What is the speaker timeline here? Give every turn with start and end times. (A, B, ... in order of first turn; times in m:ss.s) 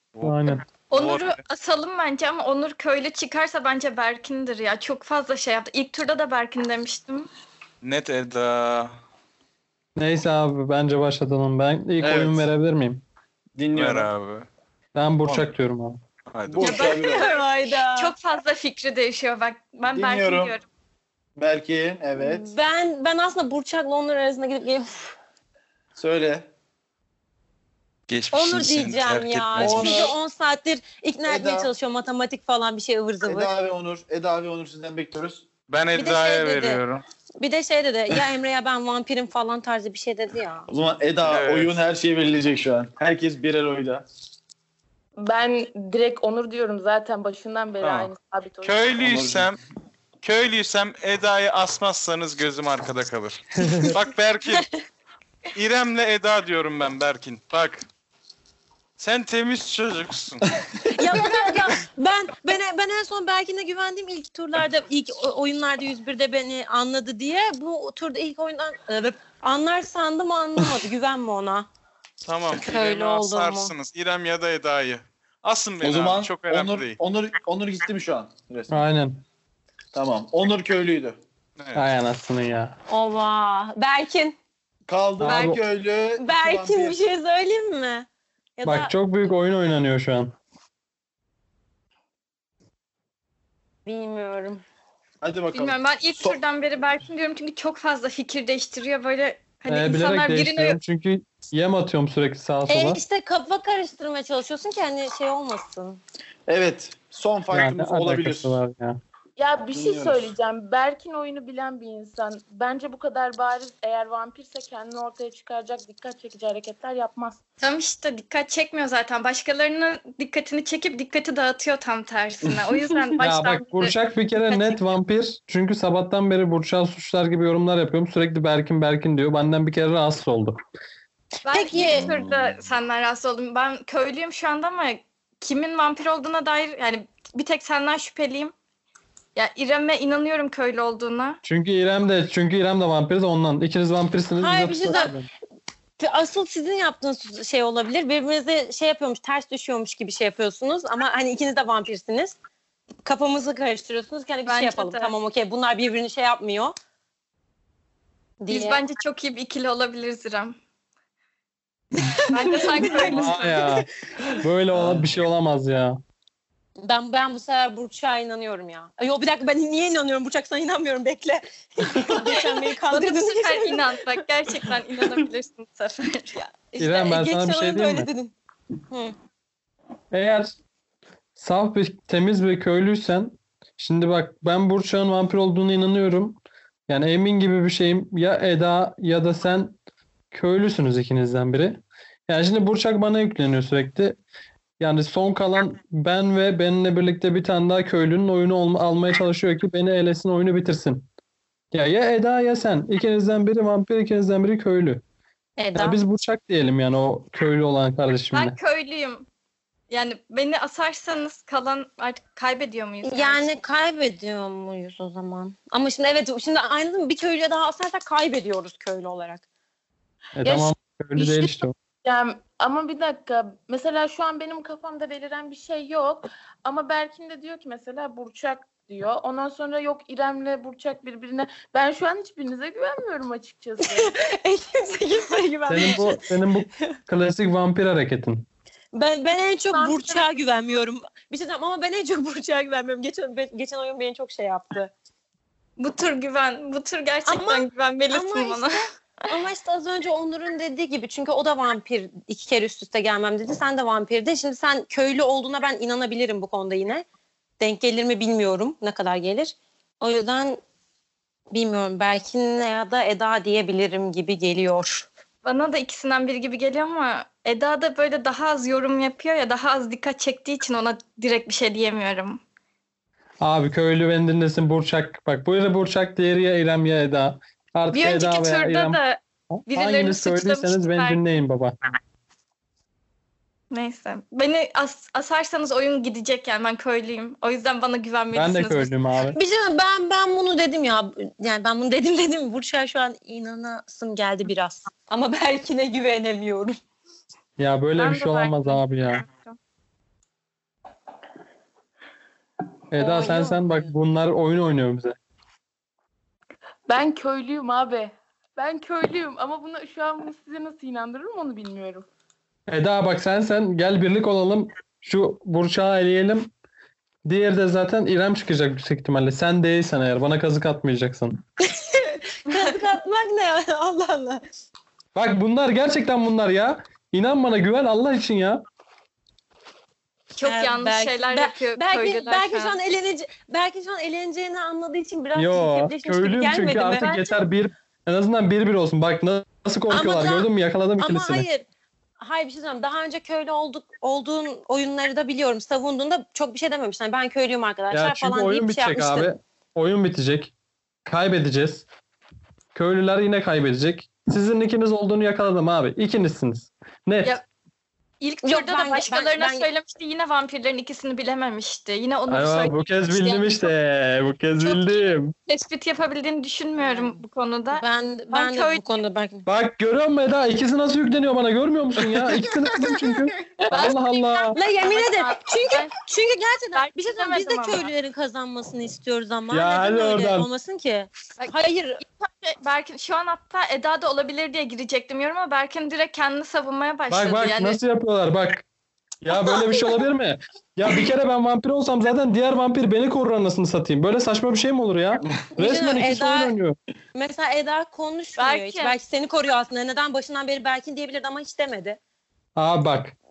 0:00.1-0:01.4 A
0:00.2-0:00.6 B
0:00.9-0:07.3 C
0:07.8-0:09.0 A
0:10.0-0:13.0 B
0:12.0-0:12.5 D
0:13.6-0:14.1 D
0:13.7-0:14.5 A
0:15.0-0:16.0 B
0:16.3-0:16.9 A
0:16.5-0:17.3 D
0:16.6-0:20.6 C
0:16.8-0:18.1 E
0:19.9-0:20.6 D
0:21.4-0:22.5 D
0:22.2-0:25.2 E
0:26.0-0:26.5 D
0:28.1-0:30.1 A
0:28.3-0:33.5 E
0:29.6-0:30.1 D
0:31.3-0:31.7 D
0:33.2-0:35.5 D
0:35.7-0:37.0 A
0:36.0-0:36.8 E
0:37.4-0:40.7 E
0:40.7-0:44.0 D
0:41.3-0:41.8 A
0:45.2-0:48.9 F
0:47.8-0:48.1 A
0:48.6-0:49.6 A
0:49.0-0:49.5 D
0:50.2-0:54.6 A
0:53.6-0:53.9 B
0:55.6-0:57.9 A
0:59.0-1:00.5 A
1:00.8-1:11.7 E
1:12.2-1:17.0 A
1:12.5-1:13.7 E
1:15.8-1:18.8 D
1:18.7-1:19.2 B
1:19.9-1:21.2 D
1:21.6-1:21.9 A
1:21.8-1:22.8 B
1:22.9-1:24.4 E
1:24.9-1:27.0 D
1:25.2-1:25.6 B
1:25.2-1:25.5 C
1:26.2-1:29.3 E
1:28.6-1:30.3 B
1:33.9-1:34.6 E
1:35.2-1:36.4 D
1:35.5-1:40.8 C
1:39.7-1:43.0 B
1:42.7-1:46.0 E
1:46.5-1:48.6 D
1:47.5-1:49.0 B
1:49.4-1:57.4 F
1:49.7-1:50.3 D
1:57.6-2:04.0 C
2:03.2-2:10.6 B
2:04.5-2:04.8 C
2:11.5-2:18.5 C
2:11.5-2:12.1 E
2:11.8-2:12.6 D
2:19.4-2:21.4 C
2:21.4-2:25.3 B
2:24.4-2:25.2 E
2:26.0-2:32.4 E
2:33.0-2:36.8 E
2:34.5-2:35.1 C
2:38.4-2:38.9 E
2:38.5-2:40.6 C
2:42.0-2:43.7 E
2:42.3-2:43.8 C
2:43.1-2:43.9 B
2:44.4-2:46.0 B
2:44.7-2:45.1 D
2:46.8-2:54.0 E
2:52.9-2:56.4 C
2:56.4-2:58.3 E
2:56.8-2:58.1 B
3:00.1-3:00.6 B
3:01.4-3:09.8 B
3:10.3-3:14.2 B
3:14.8-3:21.1 B
3:21.7-3:25.0 B
3:25.6-3:26.0 E
3:25.8-3:28.6 B
3:28.3-3:29.3 C
3:29.9-3:33.5 C
3:33.0-3:39.4 E
3:40.4-3:41.8 B
3:40.4-3:54.1 F
3:53.8-3:56.3 E
3:55.7-3:58.5 B
3:58.9-4:04.9 E
3:59.7-4:00.2 F
4:05.8-4:08.8 C
4:07.3-4:17.0 E
4:17.6-4:20.6 E
4:21.5-4:25.1 E
4:25.4-4:32.4 C
4:33.4-4:39.0 B
4:37.9-4:41.2 C
4:39.6-4:41.8 B
4:43.7-4:48.9 C
4:48.3-4:49.4 B
4:49.3-4:56.8 E
4:57.6-4:59.2 B
4:58.0-4:59.6 C
5:02.9-5:05.2 B
5:03.0-5:03.9 E
5:06.9-5:12.0 F
5:12.7-5:16.5 B
5:17.2-5:21.4 B
5:21.7-5:24.4 E
5:25.2-5:28.6 B
5:30.4-5:32.8 C
5:30.4-5:37.3 E
5:35.4-5:41.5 B
5:37.0-5:37.3 C
5:39.9-5:41.7 E
5:42.2-5:49.3 E
5:47.9-5:50.5 B
5:51.1-5:51.9 B
5:52.8-5:57.4 B
5:58.2-6:03.7 C
5:58.4-5:59.7 E
6:02.3-6:05.3 B
6:04.6-6:09.0 C
6:06.8-6:09.5 E
6:09.5-6:14.6 B
6:12.2-6:13.2 D
6:13.7-6:15.9 C
6:14.5-6:22.0 E
6:16.7-6:17.9 C
6:19.5-6:20.5 B
6:21.4-6:27.8 C
6:27.1-6:28.6 B
6:29.2-6:36.8 B
6:35.6-6:36.6 E
6:37.1-6:42.0 E
6:38.4-6:38.9 C
6:42.6-6:43.1 B